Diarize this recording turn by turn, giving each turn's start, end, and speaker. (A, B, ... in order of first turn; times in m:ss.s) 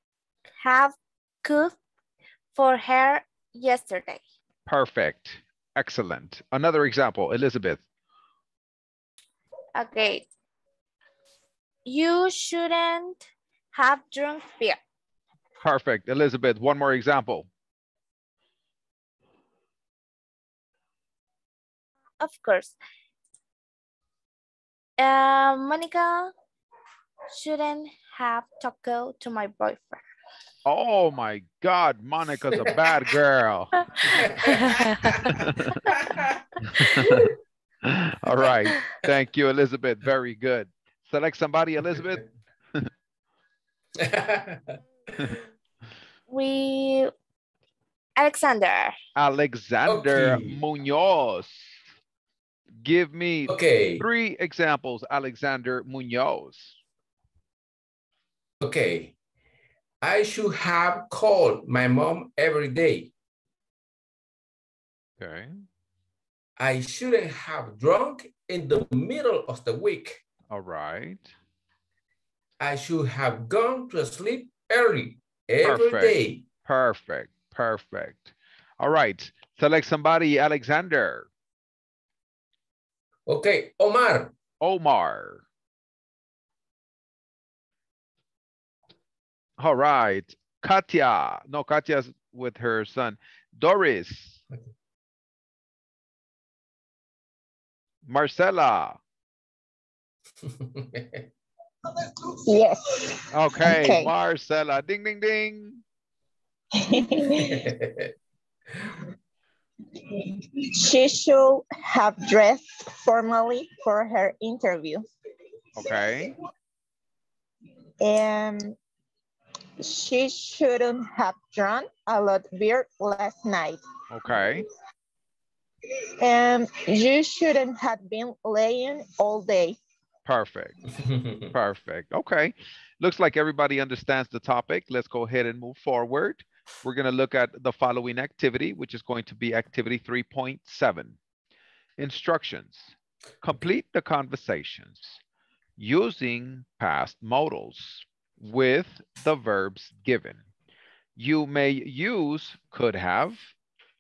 0:00.6-0:01.8 A
0:02.5-0:04.2 A
0:04.6-0:07.8 B
0:09.8-0:10.3 A
0:11.8-0:14.8 A
0:15.6-0:17.5 B
0:22.2-0:22.8 A
0:25.0-0:26.3 A
0:27.3-0:30.0 A
0:30.6-0:33.7 B
0:34.1-0:37.2 C
0:34.6-0:35.1 A
0:35.2-0:35.7 B
0:36.7-0:42.8 B
0:41.8-0:42.1 C
0:44.0-0:44.8 C
0:46.3-0:47.1 A
0:48.2-0:48.9 A
0:49.2-0:51.8 B
0:49.8-0:50.6 C
0:52.8-0:56.8 B
0:53.5-0:54.0 C
0:58.6-0:59.1 C
1:00.0-1:03.1 C
1:05.2-1:05.6 B
1:06.6-1:10.2 C
1:10.5-1:11.3 B
1:12.6-1:16.4 C
1:15.6-1:21.3 B
1:23.3-1:24.3 C
1:24.6-1:25.4 B
1:29.6-1:34.4 B
1:38.0-1:39.0 B
1:40.4-1:41.3 C
1:42.4-1:44.1 D
1:43.3-1:45.8 B
1:46.8-1:47.6 D
1:47.4-1:48.1 C
1:50.7-1:55.1 D
1:55.8-1:56.3 B
1:58.0-1:58.8 D
1:59.8-2:03.8 D
2:04.1-2:04.6 B
2:06.2-2:09.8 D
2:10.2-2:10.8 B
2:10.9-2:11.5 C
2:11.5-2:21.2 B
2:22.0-2:25.2 B
2:25.8-2:30.4 B
2:31.2-2:33.5 B